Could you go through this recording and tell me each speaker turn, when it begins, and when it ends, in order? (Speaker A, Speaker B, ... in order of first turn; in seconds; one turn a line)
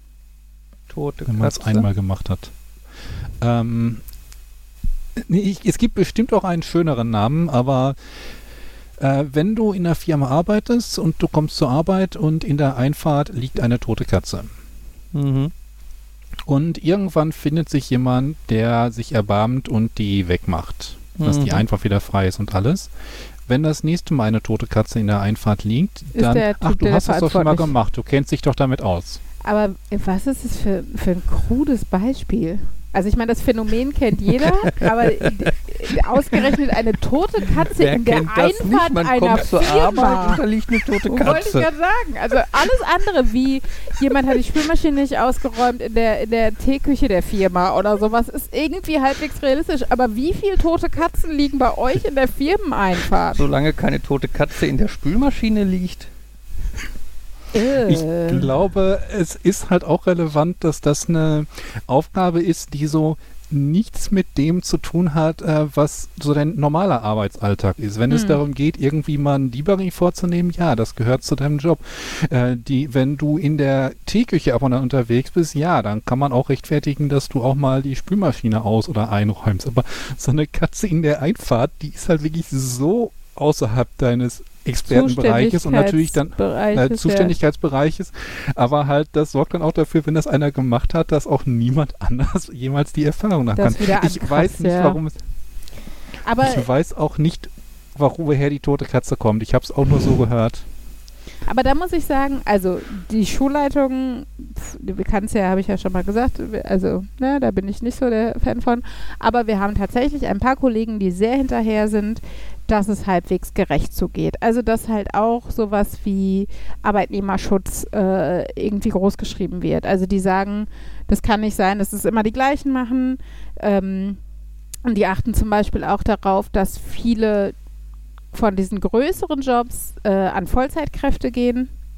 Speaker A: 0.9-1.9
Speaker B: 1.3-2.5
Speaker B: 3.4-4.0
Speaker B: 5.2-8.3
Speaker B: 9.0-14.5
Speaker A: 15.1-15.5
Speaker B: 16.4-22.9
Speaker A: 21.2-21.6
Speaker B: 23.4-29.2
Speaker C: 26.1-27.7
Speaker C: 29.4-40.4
Speaker A: 37.7-41.7
Speaker C: 41.0-53.4
Speaker A: 53.3-56.1
Speaker C: 57.5-58.5
Speaker B: 57.9-95.2
Speaker C: 68.1-68.4
Speaker C: 84.9-87.3
Speaker C: 93.5-95.0
Speaker C: 96.2-96.7
Speaker B: 96.4-100.7
Speaker C: 101.5-124.2
Speaker C: 124.8-127.5
Speaker C: 128.3-131.7